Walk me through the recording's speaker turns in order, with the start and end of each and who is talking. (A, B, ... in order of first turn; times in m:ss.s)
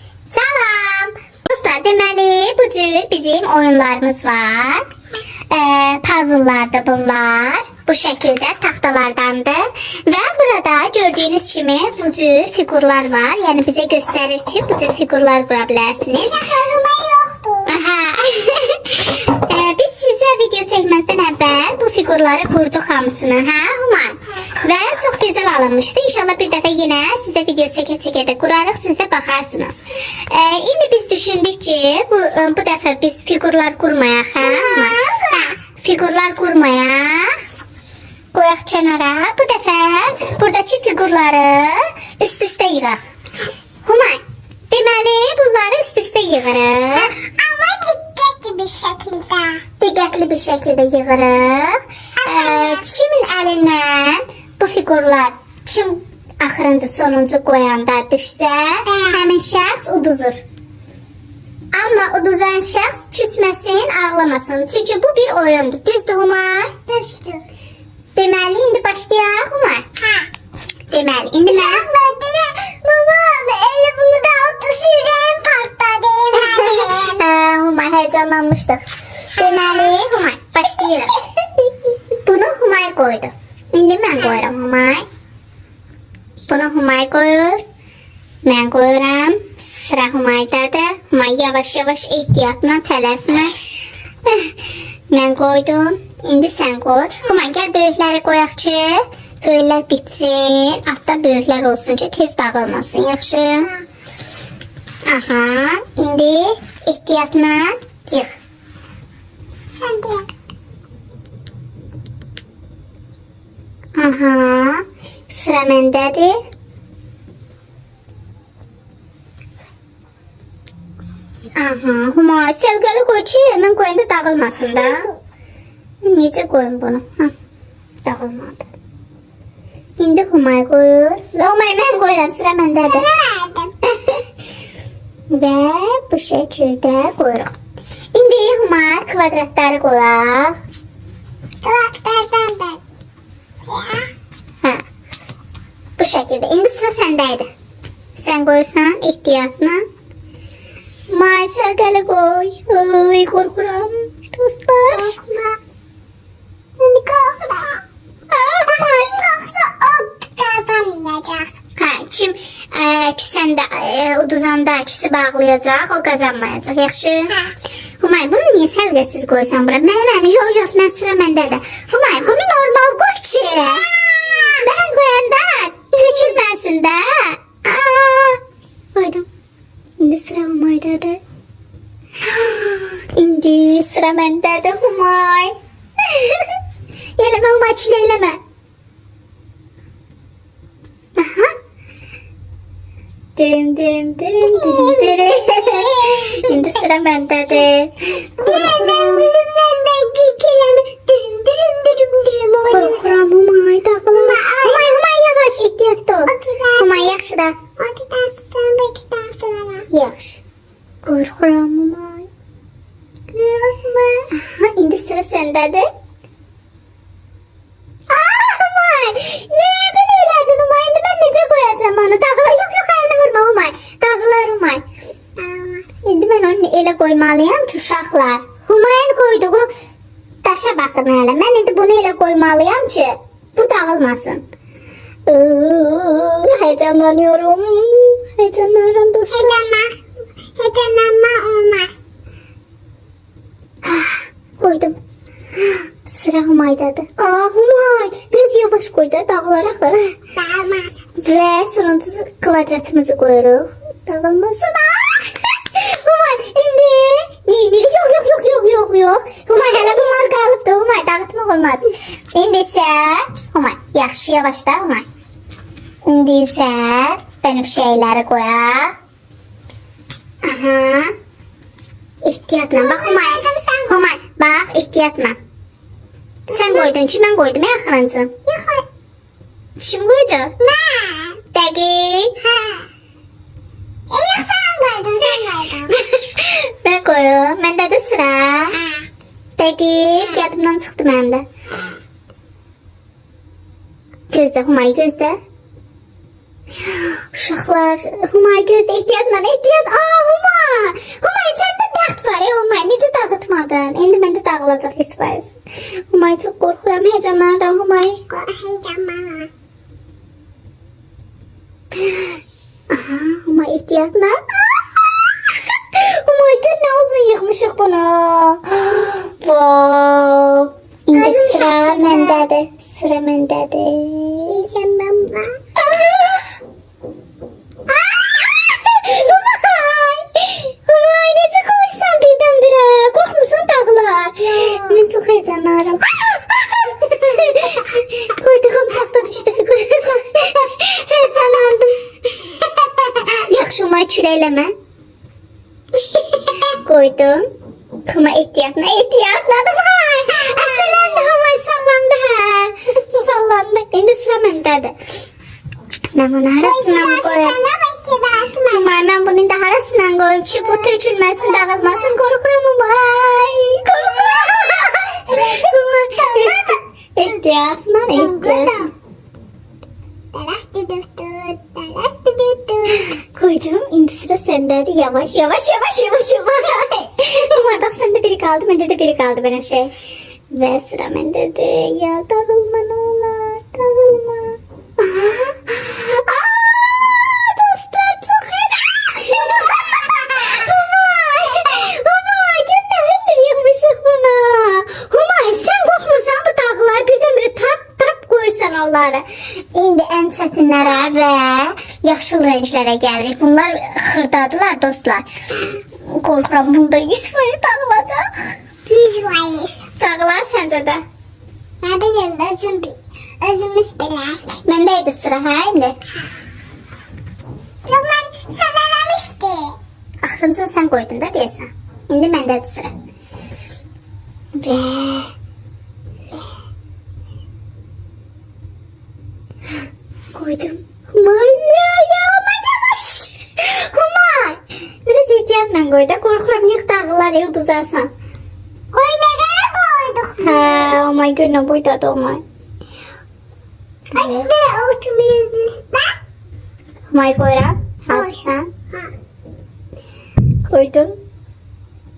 0:00.3-0:04.8 A
0:05.5-0:16.4 A
0:16.3-0:17.7 B
0:17.7-0:35.0 A
0:34.4-0:35.6 B
0:35.8-0:37.3 A
0:38.3-0:43.0 A
0:43.8-0:47.1 A
0:47.0-0:49.6 B
0:49.8-1:00.4 A
0:52.2-0:52.8 B
0:58.9-0:59.1 B
1:01.7-1:06.8 A
1:06.9-1:07.4 B
1:08.2-1:09.8 A
1:10.9-1:11.9 A
1:11.5-1:17.2 B
1:16.4-1:18.8 A
1:19.3-1:21.2 A
1:19.5-1:19.8 B
1:22.2-1:25.0 A
1:26.5-1:27.6 A
1:28.4-1:33.6 A
1:34.2-1:34.6 A
1:35.1-1:43.7 A
1:45.1-1:48.4 A
1:49.8-1:50.3 B
1:54.0-1:56.4 A
2:01.6-2:05.1 A
2:06.0-2:07.3 A
2:08.0-2:08.7 A
2:10.0-2:13.1 A
2:12.8-2:13.7 B
2:13.8-2:14.2 A
2:15.3-2:17.5 A
2:18.1-2:20.6 A
2:21.6-2:22.8 B
2:23.6-2:24.1 B
2:26.0-2:27.5 A
2:28.2-2:29.8 A
2:31.1-2:35.1 A
2:34.9-2:35.6 B
2:36.8-2:37.8 B
2:38.3-2:39.2 A
2:38.7-2:41.6 B
2:41.8-2:47.3 A
2:48.0-2:53.9 A
2:54.1-2:54.6 B
2:54.5-2:58.4 A
2:56.0-2:56.4 B
2:58.9-2:59.3 A
3:00.0-3:01.2 A
3:02.2-3:05.5 A
3:06.1-3:06.6 A
3:07.2-3:08.4 A
3:11.2-3:11.5 A
3:13.4-3:19.3 A
3:14.5-3:16.6 B
3:18.4-3:23.2 B
3:22.7-3:27.6 A
3:24.1-3:25.0 B
3:26.3-3:27.1 B
3:27.8-3:29.9 B
3:29.9-3:30.4 A
3:31.0-3:32.3 A
3:33.3-3:34.3 B
3:34.4-3:35.9 A
3:38.1-3:44.8 A
3:45.4-3:45.9 B
3:46.0-3:49.7 A
3:50.4-3:54.4 A
3:55.3-3:59.6 A
3:59.3-4:00.0 B
4:00.6-4:01.9 B
4:03.8-4:05.0 A
4:05.6-4:10.2 A
4:10.4-4:10.9 B
4:11.2-4:25.1 A
4:26.0-4:28.9 A
4:30.4-4:31.1 A
4:32.2-4:35.4 A
4:32.8-4:34.1 B
4:36.5-4:38.4 A
4:36.5-4:36.9 B
4:38.5-4:38.8 B
4:39.8-4:40.5 A
4:40.6-4:41.4 B
4:41.5-4:42.4 A
4:42.4-4:42.9 B
4:44.1-4:46.0 B
4:46.0-4:48.8 A
4:48.8-4:49.0 B
4:49.6-4:51.4 A
4:54.3-4:55.4 A
4:56.9-5:05.6 A
5:06.1-5:08.2 A
5:08.3-5:09.5 B
5:12.9-5:14.4 A
5:15.9-5:24.6 A
5:21.1-5:22.4 B
5:24.5-5:25.6 B
5:25.8-5:26.5 A
5:28.3-5:42.0 A
5:34.4-5:35.0 B
5:43.4-5:44.7 A
5:46.8-5:47.5 A
5:48.1-5:54.9 A
5:50.3-5:51.3 B
5:56.1-5:57.6 A
5:56.6-5:59.0 B
5:58.7-6:08.8 A
6:00.6-6:02.2 B
6:04.0-6:07.3 B
6:08.1-6:08.9 B
6:10.3-6:13.1 B
6:12.9-6:19.9 A
6:20.5-6:45.3 A
6:46.1-6:48.3 A
6:48.9-6:49.8 B
6:50.0-6:51.0 A
6:51.8-6:54.6 B
6:54.6-6:56.0 A
6:57.9-6:59.8 B
7:00.2-7:02.9 A
7:04.6-7:05.3 A
7:10.3-7:18.1 A
7:18.9-7:21.0 B
7:20.4-7:22.4 A
7:24.1-7:24.5 A
7:24.1-7:26.1 B
7:27.1-7:28.7 A
7:28.1-7:28.4 B
7:30.7-7:31.2 A